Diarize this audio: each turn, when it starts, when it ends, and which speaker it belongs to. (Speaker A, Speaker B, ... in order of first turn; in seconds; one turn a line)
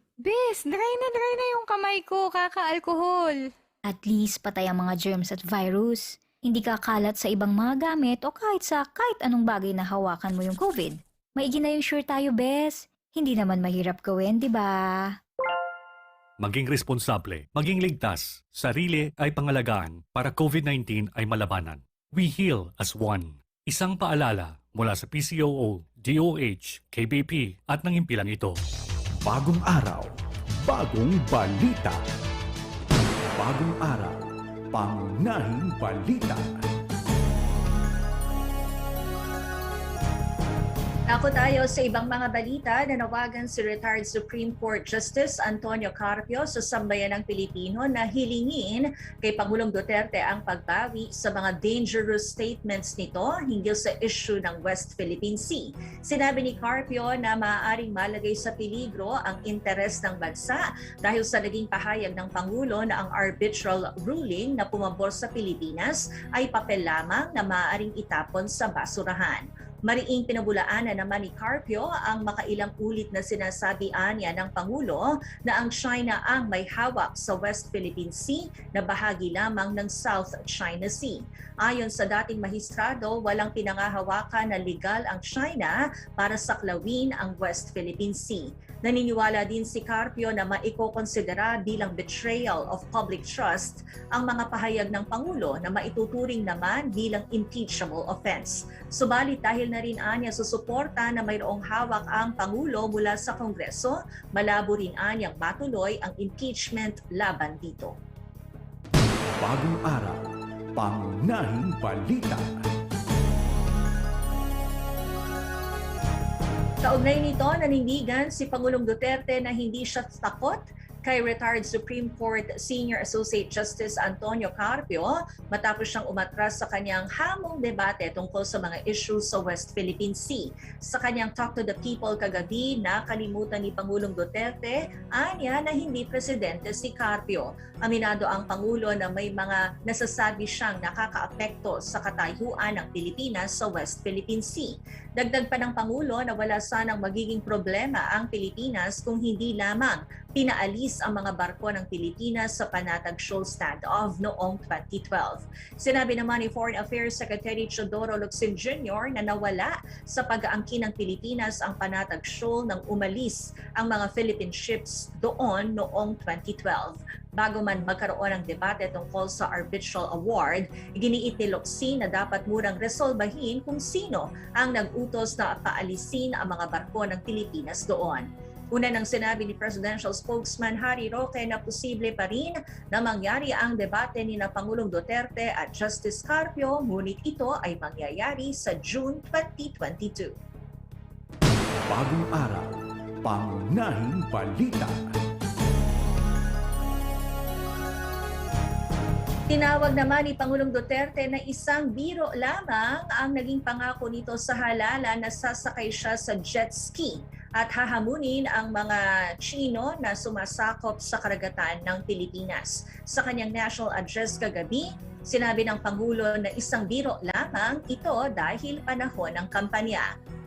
Speaker A: 0.2-3.5
Speaker B: 3.9-15.2
Speaker C: 16.4-28.6
Speaker D: 29.2-30.1
Speaker D: 30.6-32.0
Speaker D: 33.3-34.2
Speaker D: 34.7-36.7
Speaker E: 41.1-108.0
Speaker D: 109.4-110.2
Speaker D: 110.8-112.7
Speaker E: 116.8-190.3
Speaker D: 191.9-195.2
Speaker E: 199.5-220.1